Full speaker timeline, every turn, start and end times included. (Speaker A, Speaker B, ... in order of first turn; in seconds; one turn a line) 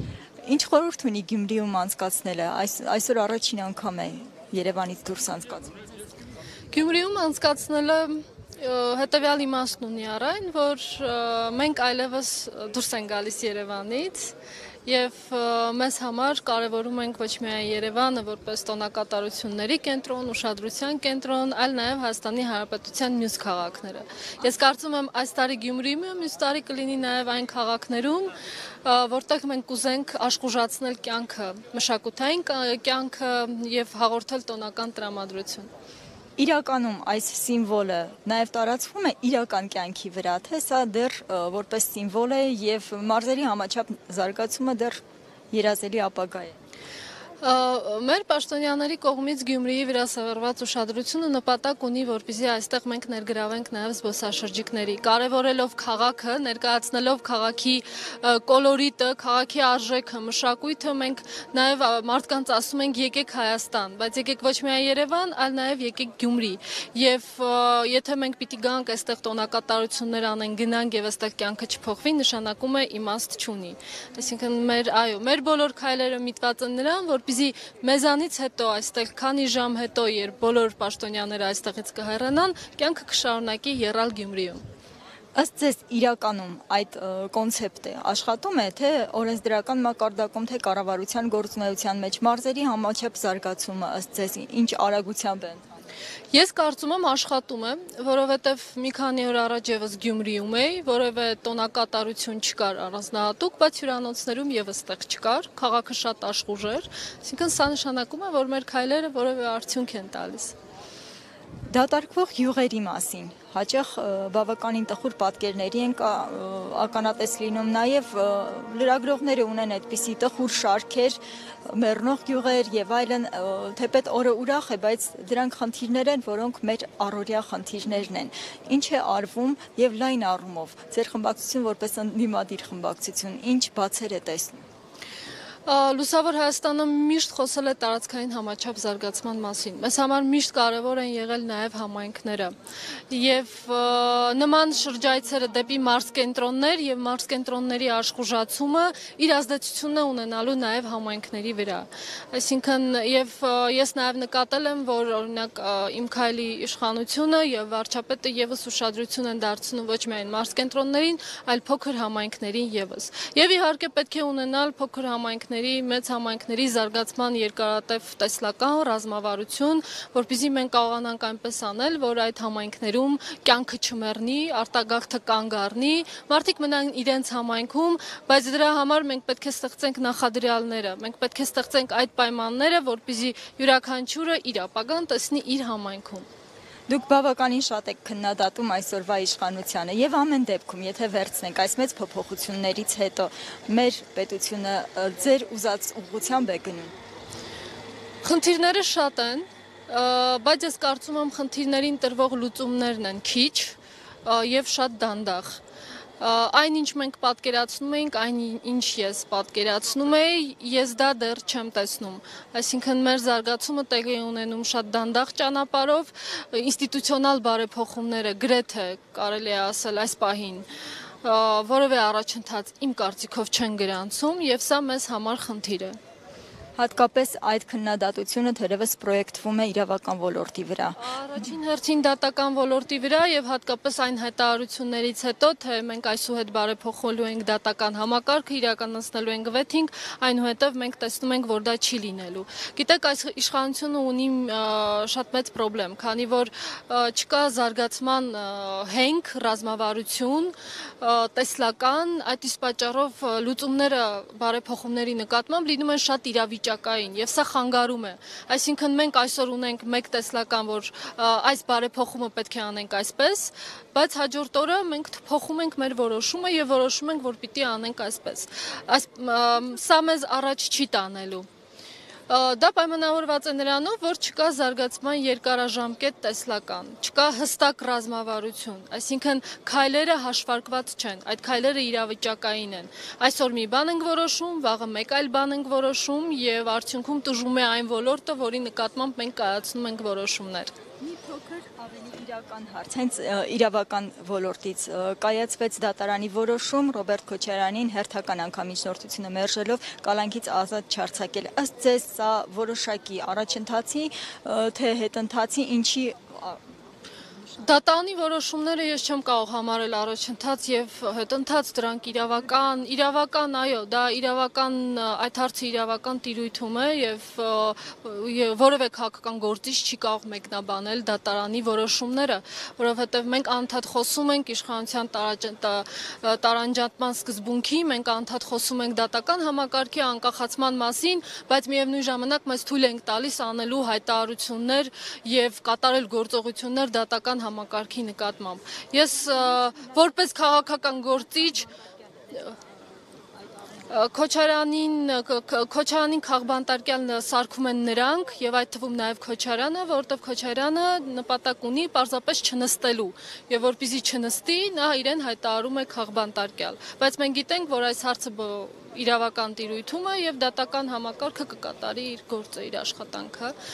Speaker A: 0.4-5.8
Speaker B: 6.7-14.3
Speaker B: 14.8-28.3
Speaker B: 28.8-35.7
Speaker A: 36.4-45.0
Speaker A: 45.5-46.5
Speaker B: 47.4-84.6
Speaker A: 85.3-95.6
Speaker B: 96.3-110.5
Speaker A: 111.7-134.6
Speaker B: 135.7-142.5
Speaker B: 143.1-186.3
Speaker A: 186.9-196.9
Speaker B: 198.2-205.6
Speaker B: 206.2-220.7
Speaker B: 221.2-226.0
Speaker A: 226.8-231.4
Speaker B: 231.0-271.5
Speaker B: 272.3-290.7
Speaker A: 291.0-306.6
Speaker B: 307.6-341.7
Speaker B: 342.3-342.6
Speaker B: 343.9-363.5